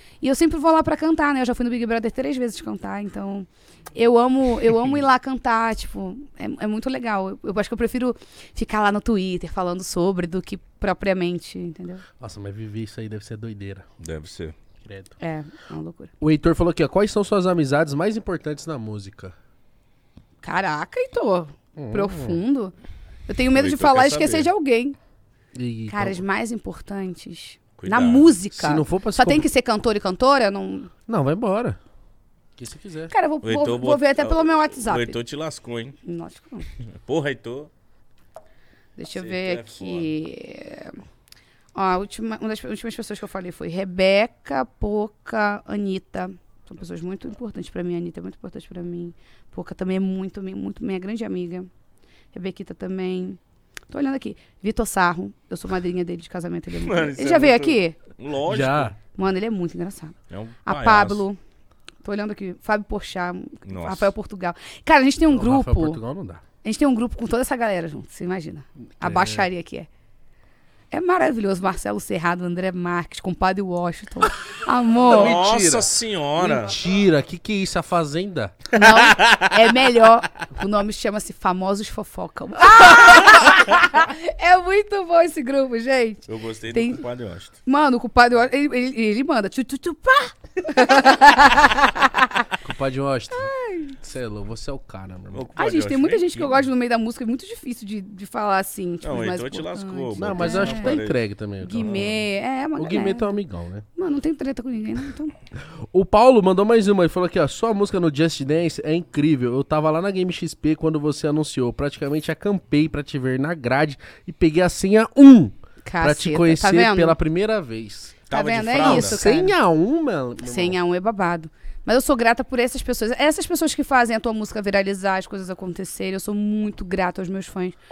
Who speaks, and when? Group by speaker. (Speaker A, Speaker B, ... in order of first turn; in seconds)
Speaker A: 0.2-12.0, 15.2-16.1, 20.4-22.7, 23.3-25.0, 25.9-30.9, 33.1-35.2, 36.0-36.7, 39.0-41.0, 41.7-51.7, 52.3-53.4, 53.9-58.0, 59.1-61.4, 62.0-66.0, 66.6-69.9, 70.9-75.4, 78.7-87.0, 87.7-92.5, 93.3-94.0, 95.5-101.0, 101.6-103.3, 104.0-105.3, 115.8-117.2, 118.3-119.5, 120.4-127.8
Speaker B: 12.2-13.8, 14.8-15.1, 16.2-19.3, 21.8-22.4, 25.5-26.2, 28.5-29.5, 31.1-31.8, 32.6-33.1, 58.5-58.9, 65.3-66.4, 69.0-69.5, 75.0-78.6, 92.6-95.5, 100.2-102.1, 102.8-103.8, 105.6-118.2, 118.8-120.8
Speaker C: 14.0-14.6, 23.5-24.5, 27.8-28.3, 33.4-36.0, 37.0-37.7, 39.1-40.1, 56.8-58.9, 60.3-61.2, 63.6-64.1, 75.0-76.7, 78.9-79.5, 86.3-87.5, 95.3-96.7, 99.0-101.2, 101.8-102.2, 118.3-119.2